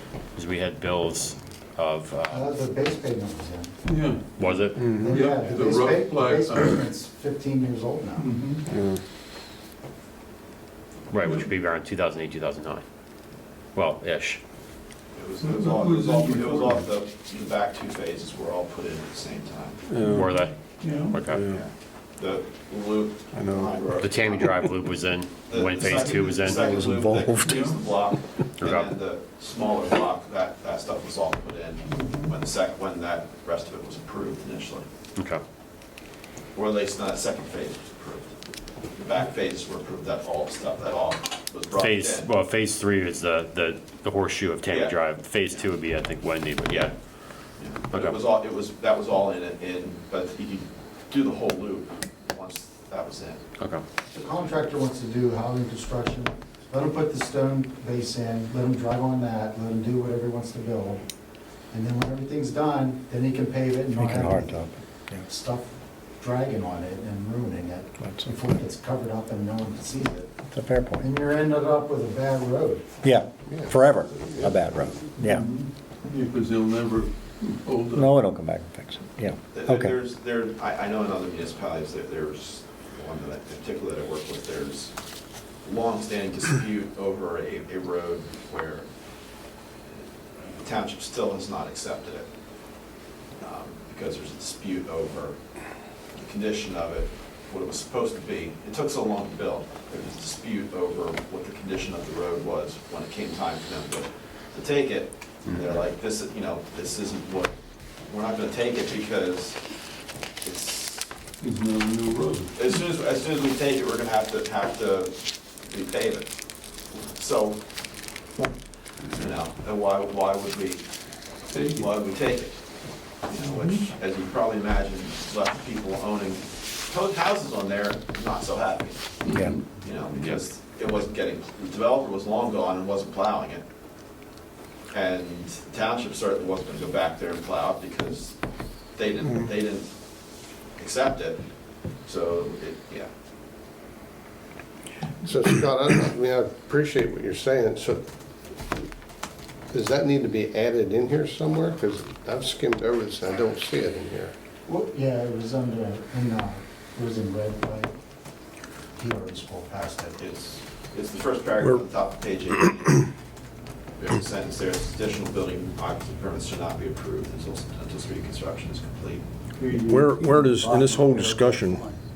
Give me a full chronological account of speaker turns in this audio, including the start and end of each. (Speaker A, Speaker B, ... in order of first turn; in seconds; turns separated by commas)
Speaker A: 0.3-2.6, Speaker B: 2.3-3.7, Speaker C: 3.9-6.8, Speaker A: 4.4-4.8, Speaker D: 4.8-5.1, Speaker B: 4.8-8.3, Speaker C: 8.2-8.6, Speaker D: 8.7-9.0, Speaker A: 11.1-12.8, Speaker A: 13.7-14.4, Speaker E: 15.1-19.9, Speaker C: 15.4-16.8, Speaker D: 19.9-20.3, Speaker C: 20.0-21.2, Speaker A: 20.1-20.6, Speaker A: 21.1-21.4, Speaker D: 21.2-21.6, Speaker E: 21.4-24.5, Speaker D: 23.3-23.8, Speaker A: 24.0-26.7, Speaker E: 25.5-34.9, Speaker C: 27.4-27.8, Speaker A: 28.6-28.9, Speaker C: 31.9-32.3, Speaker A: 35.1-35.4, Speaker E: 36.5-38.3, Speaker E: 38.9-42.3, Speaker A: 41.7-46.9, Speaker E: 44.7-45.6, Speaker E: 46.6-46.9, Speaker E: 47.6-53.4, Speaker A: 47.9-48.2, Speaker B: 54.1-61.0, Speaker B: 61.7-64.6, Speaker F: 64.0-65.2, Speaker B: 65.2-65.7, Speaker B: 66.2-70.3, Speaker F: 68.0-68.3, Speaker F: 70.5-71.0, Speaker B: 71.0-72.9, Speaker F: 73.0-75.5, Speaker G: 73.5-74.5, Speaker C: 75.2-78.1, Speaker F: 77.9-79.9, Speaker E: 79.5-84.9, Speaker E: 85.6-88.9, Speaker E: 90.4-92.3, Speaker E: 93.4-109.6, Speaker E: 110.4-111.1, Speaker C: 111.4-112.5, Speaker E: 112.5-116.3, Speaker E: 116.9-117.6, Speaker E: 119.1-120.9, Speaker C: 121.5-121.9, Speaker E: 121.5-122.6, Speaker E: 123.2-129.2, Speaker C: 123.4-123.9, Speaker C: 129.2-129.6, Speaker E: 129.8-133.6, Speaker E: 134.9-138.4, Speaker E: 138.9-139.9, Speaker E: 140.8-141.4, Speaker E: 142.0-143.1, Speaker G: 145.2-148.0, Speaker G: 149.7-154.3, Speaker B: 154.7-157.9, Speaker B: 159.0-160.2, Speaker E: 160.2-163.1, Speaker E: 164.0-169.2, Speaker C: 169.6-170.2, Speaker D: 169.8-171.8, Speaker B: 170.1-172.0